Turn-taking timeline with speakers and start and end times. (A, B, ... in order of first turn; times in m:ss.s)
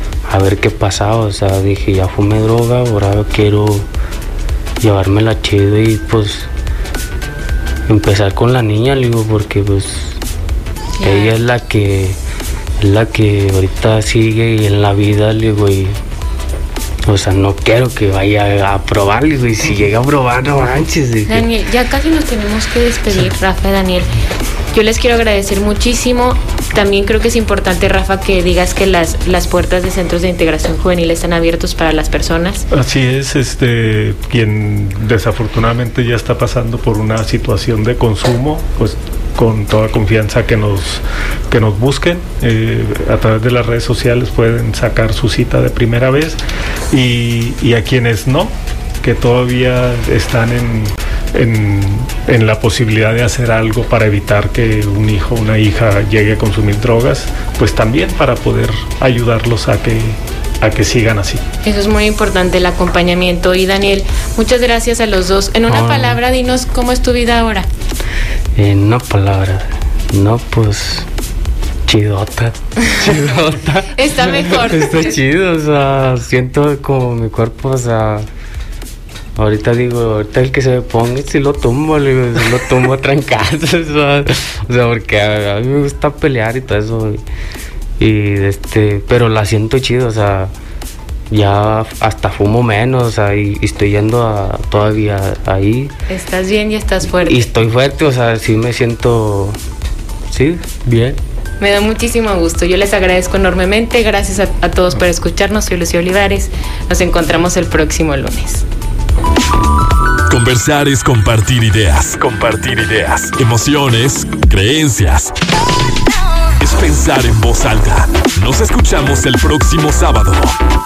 0:00.3-0:03.9 A
0:04.8-0:06.5 A
0:07.9-0:10.2 A
0:11.0-0:11.3 B
0:11.0-0:12.2 A
0:12.8-0:16.0 A
0:17.0-0:21.5 A
0:21.3-0:24.1 B
0:24.7-0:32.6 B
0:32.7-0:46.4 C
0:46.9-1:01.4 C
1:01.6-1:07.7 B
1:05.7-1:06.2 A
1:08.6-1:11.1 A
1:11.8-1:18.3 A
1:13.9-1:15.1 B
1:19.4-1:27.2 A
1:28.0-1:30.5 A
1:31.3-1:35.9 A
1:36.1-1:37.4 B
1:37.2-1:39.6 A
1:40.3-1:41.2 A
1:41.6-1:48.6 B
1:50.3-1:55.3 D
1:56.6-2:00.5 D